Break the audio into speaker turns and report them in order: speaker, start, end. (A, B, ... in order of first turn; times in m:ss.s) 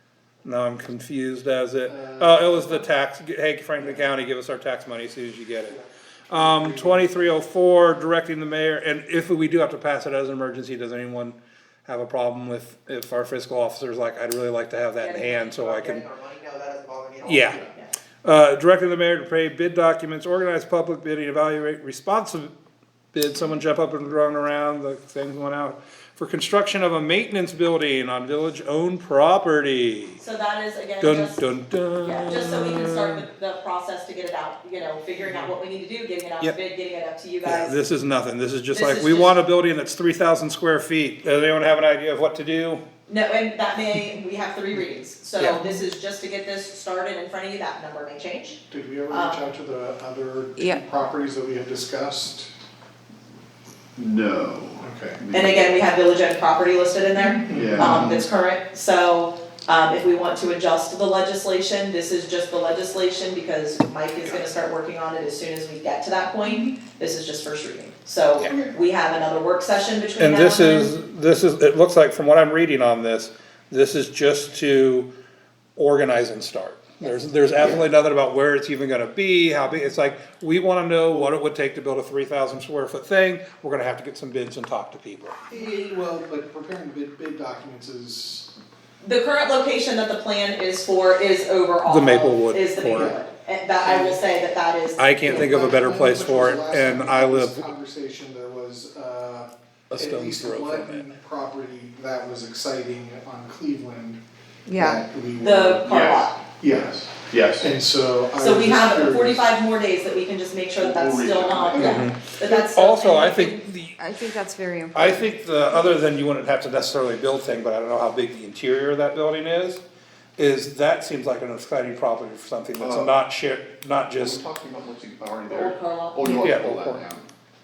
0:00.4-0:05.8 A
0:01.9-0:02.5 B
0:06.3-0:16.1 A
0:06.3-0:07.1 B
0:15.0-0:15.6 C
0:15.5-0:17.7 D
0:17.2-0:17.6 A
0:18.2-0:22.5 A
0:23.1-0:30.2 A
0:30.2-0:31.4 C
0:31.0-0:33.2 A
0:32.0-0:37.8 C
0:37.4-0:42.8 A
0:38.7-0:39.4 C
0:43.1-0:49.5 C
0:48.7-0:52.5 B
0:54.0-0:55.7 E
0:54.8-0:55.2 B
0:55.3-1:10.9 C
0:57.4-0:58.2 B
0:57.5-0:58.2 E
1:10.2-1:15.1 A
1:15.8-1:25.4 A
1:25.5-1:28.5 B
1:29.0-1:35.0 C
1:31.8-1:33.1 A
1:32.9-1:33.2 B
1:33.8-1:34.1 B
1:35.0-1:37.7 A
1:35.2-1:44.2 B
1:39.9-1:41.0 A
1:44.7-1:45.0 F
1:44.8-1:46.0 B
1:45.4-1:46.4 C
1:45.8-1:46.3 E
1:46.6-1:49.5 B
1:47.2-1:47.7 E
1:48.4-1:53.6 C
1:50.8-1:52.0 E
1:51.8-1:54.0 A
1:54.0-1:55.9 F
1:54.9-1:59.8 A
2:00.4-2:04.5 A
2:02.8-2:03.2 E
2:04.1-2:07.3 E
2:05.5-2:06.3 C
2:06.2-2:07.0 A